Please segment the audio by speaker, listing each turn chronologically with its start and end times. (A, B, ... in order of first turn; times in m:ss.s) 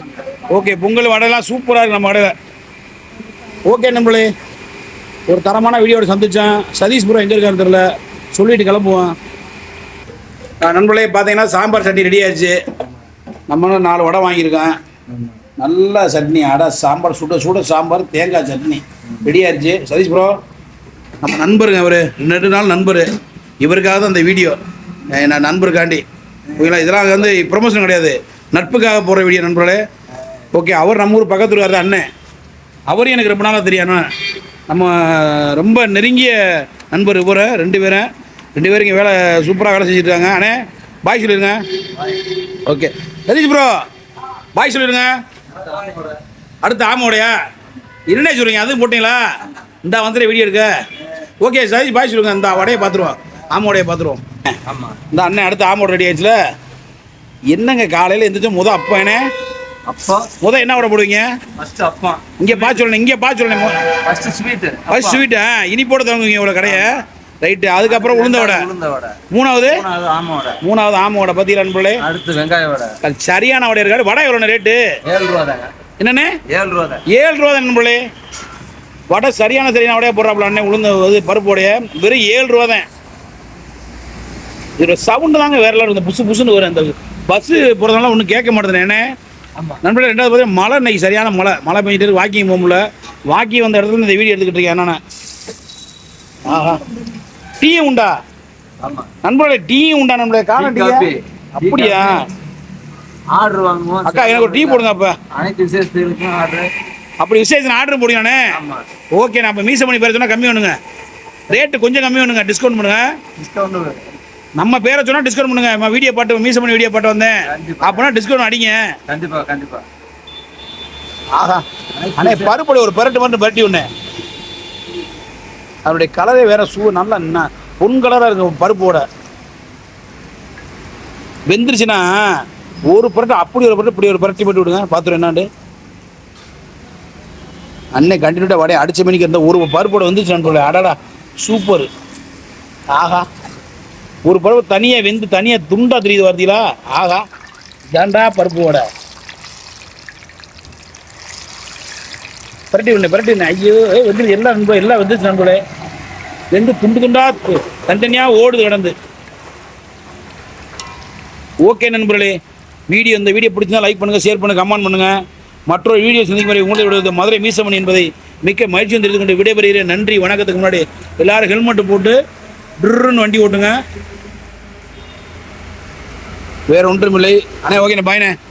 0:00.5-0:02.3 A
0:03.7-0:04.3 A
0:05.3-0:07.8 A
0:08.3-0:09.1 A
0:10.6-0:12.6 A
0:13.5-0:14.8 A
0:15.6-0:20.4 A
0:21.2-0:23.1 A
0:23.6-0:24.6 A
0:25.1-0:26.0 A
0:26.6-0:29.8 A
0:30.5-0:32.1 A
0:32.9-0:34.1 A
0:34.7-0:41.6 A
0:42.6-0:43.8 A
0:44.6-0:45.1 A
0:45.6-0:46.2 B
0:46.6-0:47.3 A
0:48.1-0:49.2 A
0:49.8-0:50.7 A
0:51.4-0:54.2 A
0:54.7-0:55.0 B
0:55.1-0:56.4 A
0:57.5-0:59.2 A
0:59.9-1:00.3 B
1:00.4-1:01.3 A
1:01.6-1:02.8 B
1:02.4-1:03.8 A
1:04.0-1:05.2 B
1:04.9-1:08.7 A
1:06.6-1:06.9 B
1:07.8-1:10.6 B
1:09.3-1:09.8 A
1:10.6-1:12.0 A
1:12.0-1:13.0 B
1:13.0-1:14.8 A
1:15.1-1:15.7 B
1:16.0-1:16.3 A
1:16.5-1:17.0 B
1:17.1-1:18.0 A
1:19.1-1:22.8 A
1:24.8-1:29.0 A
1:29.8-1:35.0 A
1:36.4-1:36.9 A
1:37.6-1:38.1 A
1:38.8-1:39.1 B
1:39.2-1:42.2 A
1:40.6-1:42.1 B
1:43.3-1:46.7 B
1:44.0-1:45.2 A
1:47.2-1:48.4 A
1:48.5-1:48.8 B
1:49.2-1:50.8 A
1:51.5-1:53.0 A
1:53.4-1:54.1 B
1:54.6-1:58.8 A
1:57.5-1:58.1 B
1:59.1-1:59.8 B
2:01.4-2:01.6 A
2:02.0-2:02.6 B
2:02.2-2:03.9 A
2:05.9-2:09.0 A
2:11.5-2:12.2 A
2:12.9-2:15.5 A
2:18.0-2:21.9 A
2:22.9-2:23.3 A
2:24.3-2:27.2 A
2:27.9-2:28.8 A
2:32.7-2:35.6 A
2:36.5-2:38.9 A
2:41.6-2:42.4 A
2:42.9-2:45.2 A
2:45.7-2:52.2 A
2:52.8-2:53.8 A
2:56.7-2:58.4 A